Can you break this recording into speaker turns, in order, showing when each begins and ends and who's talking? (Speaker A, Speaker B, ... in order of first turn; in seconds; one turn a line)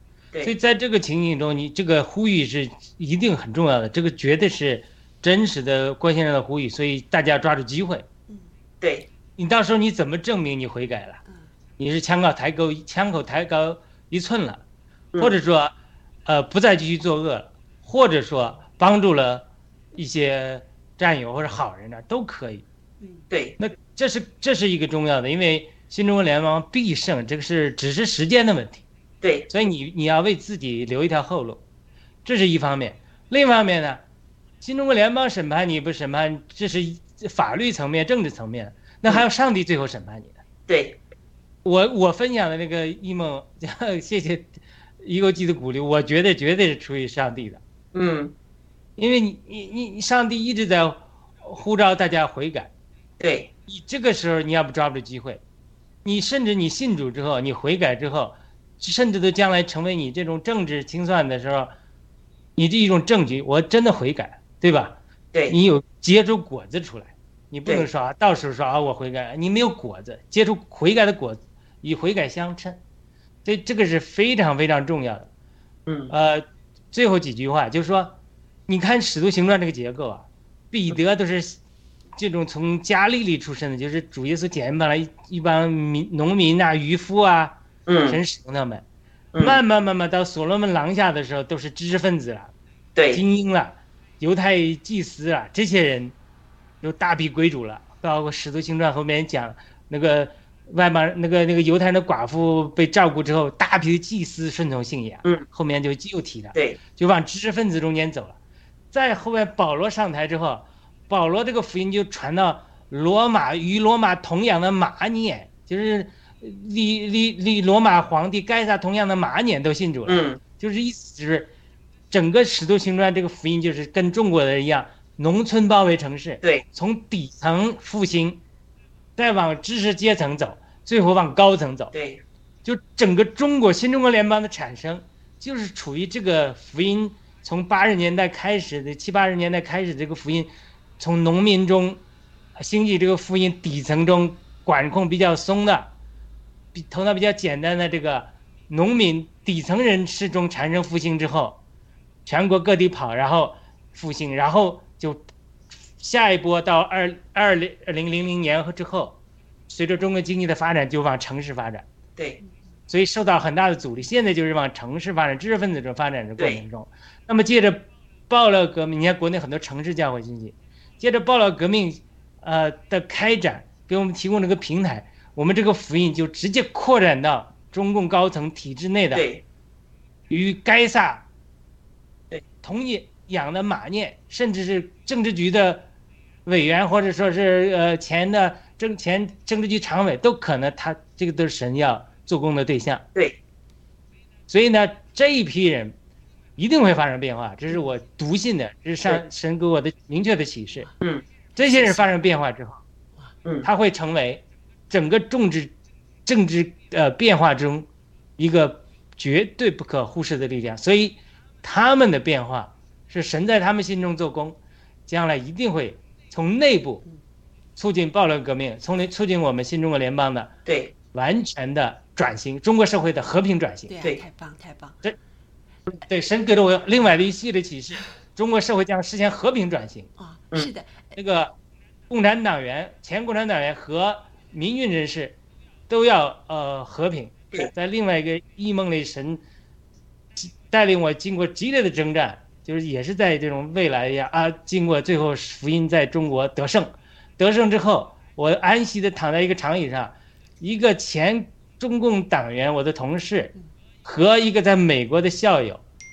Speaker A: 0.4-8.1
Speaker B: 8.8-9.1
Speaker A: 9.4-11.2
Speaker A: 11.8-14.6
Speaker A: 15.2-15.7
Speaker A: 16.3-22.6
Speaker B: 23.3-23.6
Speaker A: 23.6-28.8
Speaker B: 29.2-29.5
Speaker A: 29.5-31.6
Speaker A: 32.2-34.0
Speaker A: 34.6-40.4
Speaker B: 40.7-41.0
Speaker A: 41.6-47.6
Speaker B: 47.9-48.4
Speaker A: 49.0-52.7
Speaker B: 53.2-53.5
Speaker A: 53.7-55.4
Speaker A: 56.0-61.7
Speaker A: 62.6-65.0
Speaker A: 65.5-72.8
Speaker A: 73.5-75.3
Speaker B: 75.9-76.1
Speaker A: 76.1-78.2
Speaker A: 78.7-81.6
Speaker A: 82.2-88.8
Speaker B: 87.9-88.2
Speaker B: 89.3-89.6
Speaker A: 89.4-92.5
Speaker B: 93.0-93.2
Speaker A: 93.1-96.1
Speaker A: 96.8-108.4
Speaker A: 108.9-121.5
Speaker B: 120.1-120.4
Speaker A: 122.1-128.4
Speaker A: 129.2-131.9
Speaker B: 131.9-132.2
Speaker A: 132.7-142.0
Speaker A: 142.6-145.9
Speaker A: 146.7-151.6
Speaker A: 152.3-155.3
Speaker A: 156.0-159.2
Speaker A: 159.7-161.8
Speaker A: 162.9-179.2
Speaker B: 179.1-179.4
Speaker A: 180.3-181.3
Speaker A: 182.6-185.9
Speaker A: 186.5-193.1
Speaker A: 194.5-196.0
Speaker A: 196.6-200.9
Speaker A: 201.6-202.8
Speaker C: 201.8-202.1
Speaker A: 203.6-205.7
Speaker A: 206.3-217.0
Speaker A: 217.8-220.5
Speaker B: 220.7-220.9
Speaker A: 221.1-223.9
Speaker C: 223.9-225.0
Speaker A: 226.1-230.1
Speaker C: 230.2-231.2
Speaker A: 231.2-231.5
Speaker A: 232.1-235.4
Speaker A: 235.9-239.4
Speaker A: 240.4-253.5
Speaker A: 254.1-255.8